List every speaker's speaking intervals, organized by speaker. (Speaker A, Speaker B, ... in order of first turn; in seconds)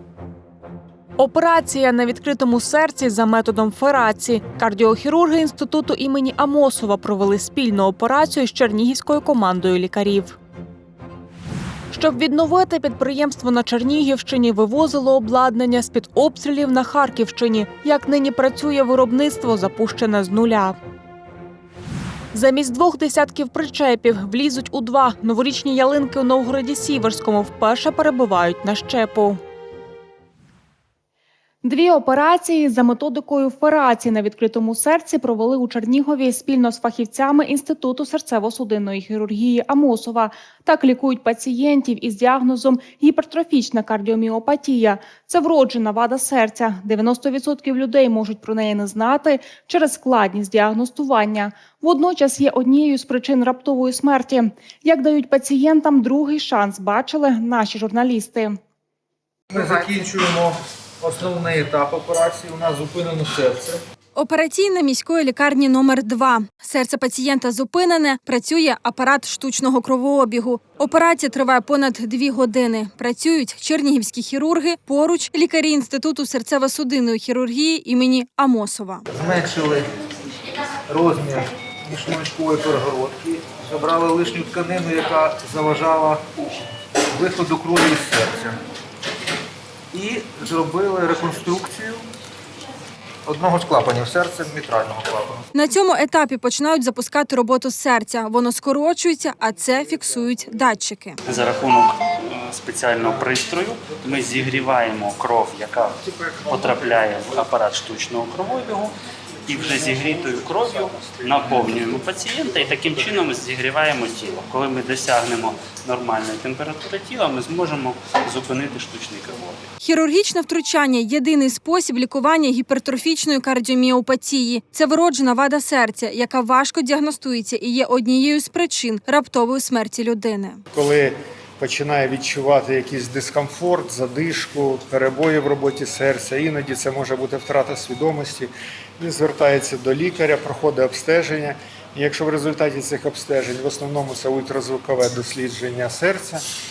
Speaker A: 1.2-10.4, 11.9-20.8, 22.3-29.4, 31.6-58.6
Speaker B: 59.5-63.8, 79.1-79.8, 80.9-86.2, 87.2-88.5, 89.9-92.0, 93.3-95.3
Speaker C: 64.1-79.0, 95.5-101.2, 119.8-130.6
Speaker D: 101.2-105.9, 106.5-108.9, 109.5-119.6
Speaker E: 130.7-146.4